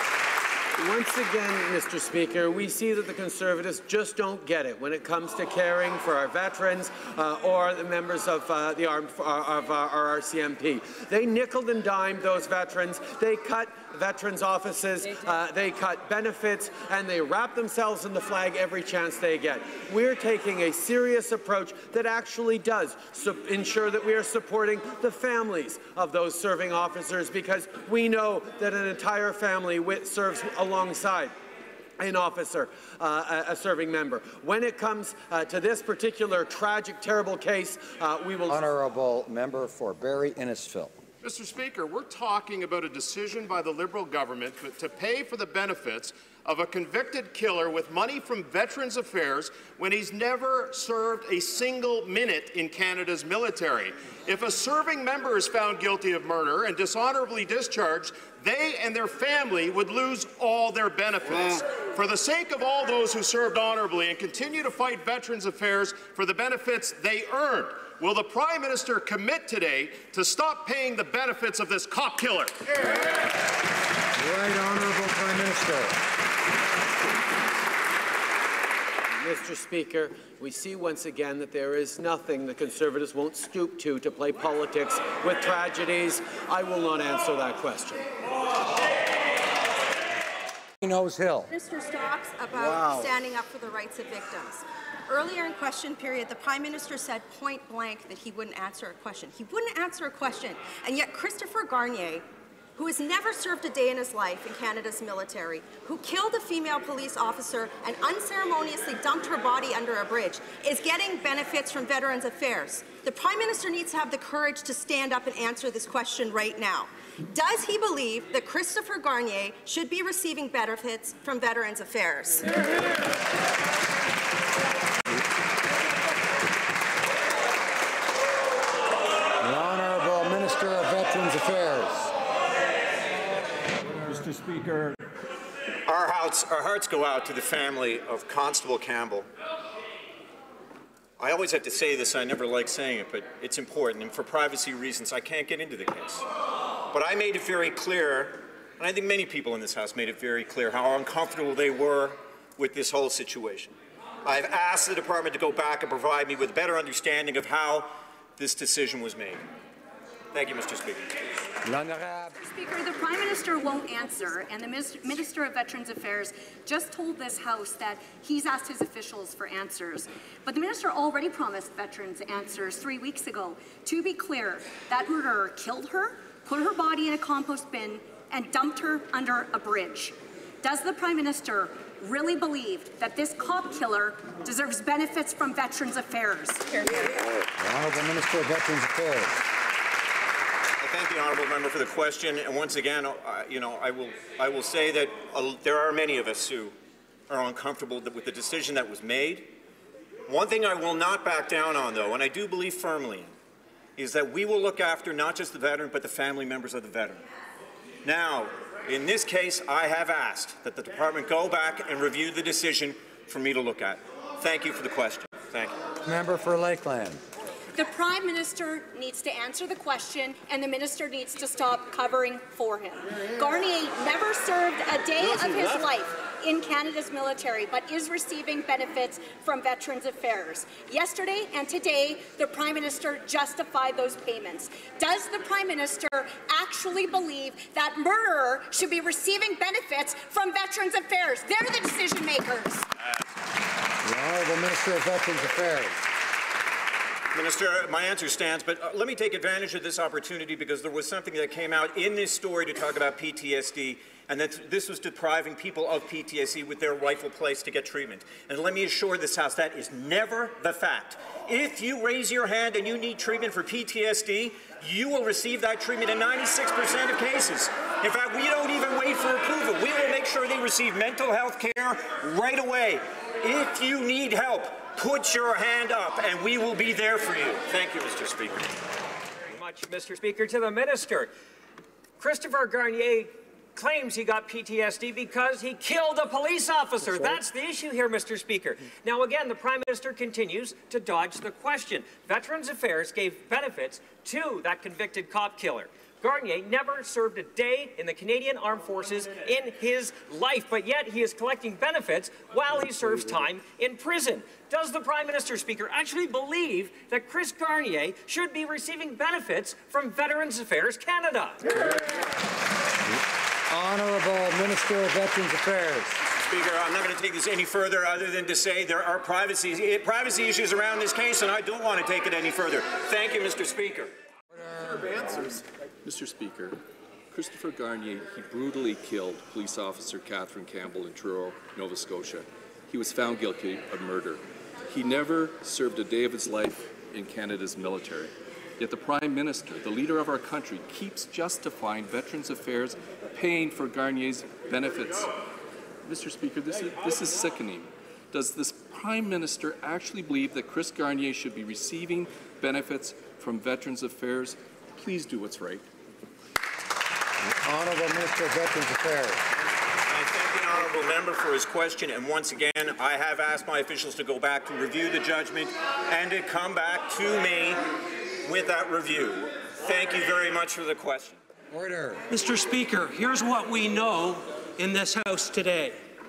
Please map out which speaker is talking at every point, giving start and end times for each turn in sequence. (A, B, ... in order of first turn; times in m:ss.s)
0:00.8-0:31.3 A
0:32.0-0:38.7 A
0:38.5-0:40.9 B
0:41.2-1:12.6 C
1:14.2-1:16.0 B
1:19.2-1:28.0 A
1:30.8-1:31.5 B
1:31.5-1:42.2 D
1:32.6-1:33.1 B
1:42.8-2:02.5 D
2:09.4-2:12.1 B
2:15.9-2:19.3 E
2:21.2-2:26.2 E
2:26.9-2:33.7 E
2:34.2-2:39.4 E
2:40.3-2:41.1 E
2:41.6-2:42.4 B
2:42.4-3:06.7 F
3:07.6-3:09.3 B
3:10.8-3:16.8 E
3:17.3-3:19.5 E
3:20.3-3:23.3 E
3:24.0-3:27.2 E
3:28.0-3:35.8 E
3:36.0-3:37.2 B
3:37.8-4:02.8 F
4:04.0-4:06.0 B
4:07.3-4:38.7 E
4:39.5-4:41.3 G
4:42.2-5:11.6 G
5:13.7-5:16.2 B
5:16.4-5:24.1 E
5:24.5-5:25.4 B
5:25.4-5:26.8 H
5:27.3-5:45.3 H
5:46.0-5:55.8 H
5:57.6-5:59.4 B
6:00.1-6:07.8 E
6:08.4-6:11.4 E
6:11.7-6:12.2 B
6:12.3-6:16.0 I